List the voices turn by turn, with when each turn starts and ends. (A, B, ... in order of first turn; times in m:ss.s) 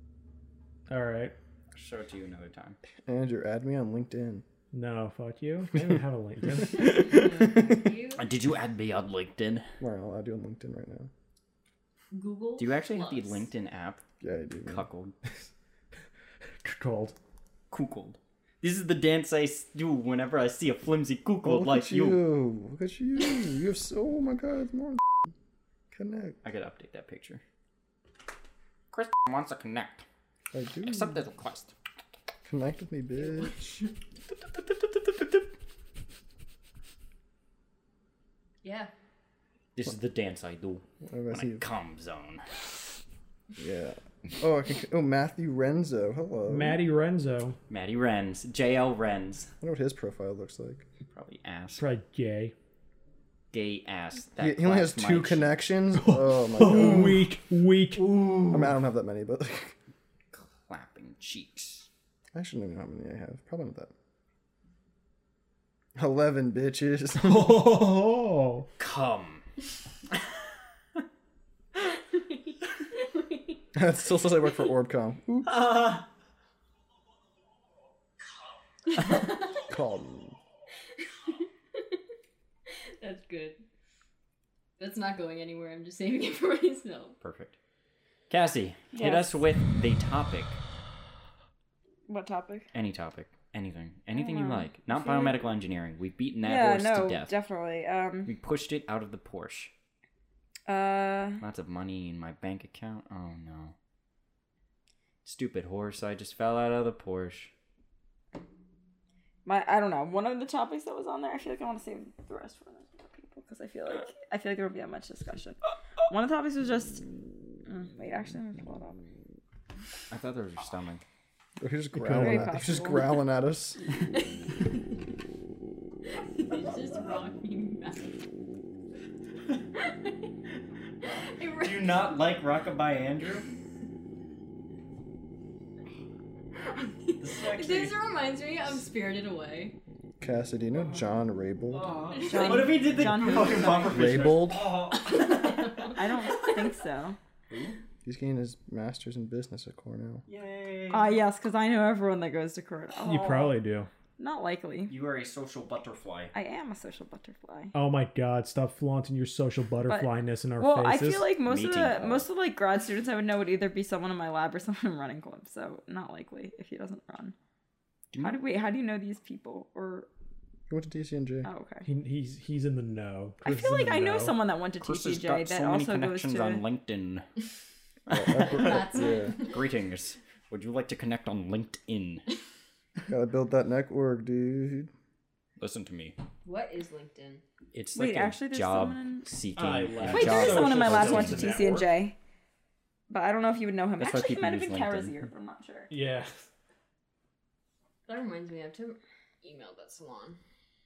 0:00.9-0:01.3 A
0:01.7-0:02.8 B
0:03.0-0:04.4 C
0:04.7-0:07.2 A
0:06.9-0:08.2 D
0:08.2-0:09.7 B
0:09.8-0:11.1 C
0:12.1-0:13.5 D
0:12.6-0:14.0 B
0:14.2-0:14.8 C
0:14.7-0:15.1 B
0:16.6-0:17.1 A
0:17.7-0:22.2 B
0:21.4-0:25.0 C
0:25.9-0:26.4 C
0:26.4-0:27.4 B
0:28.9-0:30.0 B
0:30.5-0:31.2 C
0:30.8-0:31.7 B
0:32.4-0:33.8 C
0:34.4-0:35.5 B
0:38.6-0:38.9 D
0:39.8-0:42.6 B
0:41.0-0:41.6 C
0:43.6-0:46.8 C
0:46.5-0:47.6 A
0:47.7-0:49.5 B
0:49.6-0:50.8 C
0:51.1-0:51.8 B
0:51.8-0:52.5 A
0:53.5-0:55.5 B
0:54.4-0:57.2 C
0:56.0-0:58.1 A
0:58.1-0:58.6 B
0:58.5-0:59.8 C
1:00.3-1:01.9 B
1:02.3-1:03.9 C
1:06.0-1:07.7 C
1:07.2-1:08.7 A
1:08.8-1:09.4 B
1:12.1-1:13.6 D
1:13.7-1:15.6 C
1:15.5-1:16.0 B
1:18.9-1:19.6 D
1:19.7-1:20.4 C
1:21.3-1:21.8 D
1:22.7-1:23.6 D
1:24.8-1:27.1 D
1:27.2-1:27.6 B
1:28.3-1:30.6 B
1:28.9-1:29.3 E
1:32.1-1:32.7 E
1:32.7-1:37.4 B
1:34.1-1:35.5 E
1:36.4-1:38.3 E
1:38.2-1:39.7 B
1:40.7-1:41.4 E
1:41.4-1:43.7 B
1:45.2-1:47.5 B
1:49.4-1:57.1 E
1:57.6-1:59.2 E
2:00.1-2:01.0 B
2:01.6-2:03.8 C
2:01.9-2:02.5 A
2:02.1-2:03.2 E
2:04.1-2:04.7 D
2:06.1-2:08.2 D
2:09.8-2:10.1 D
2:11.0-2:12.2 D
2:11.5-2:13.5 B
2:16.6-2:19.8 D
2:17.2-2:18.0 B
2:20.2-2:21.9 C
2:21.7-2:25.9 B
2:22.0-2:22.9 D
2:22.2-2:23.9 E
2:23.8-2:24.7 C
2:24.9-2:26.8 D
2:25.9-2:27.2 E
2:27.5-2:27.8 B
2:28.0-2:30.2 C
2:30.3-2:31.2 B
2:30.9-2:33.6 E
2:33.0-2:33.9 A
2:34.2-2:34.9 E
2:34.9-2:36.3 B
2:36.3-2:37.7 E
2:37.7-2:41.3 A
2:39.8-2:47.3 E
2:41.4-2:42.3 B
2:48.1-2:48.4 B
2:48.2-2:50.1 E
2:50.7-2:51.5 C
2:51.4-2:51.9 E
2:51.8-2:54.4 A
2:53.4-2:56.6 E
2:54.8-2:57.2 B
2:58.1-3:02.2 B
2:58.1-2:59.4 C
2:58.4-2:59.7 D
3:03.1-3:04.9 C
3:05.6-3:06.2 B
3:06.4-3:07.4 D
3:07.7-3:11.8 B
3:08.0-3:09.3 E
3:09.6-3:11.8 A
3:10.1-3:12.2 E
3:13.1-3:15.9 E
3:14.0-3:15.3 B
3:15.9-3:16.5 A
3:18.0-3:20.4 D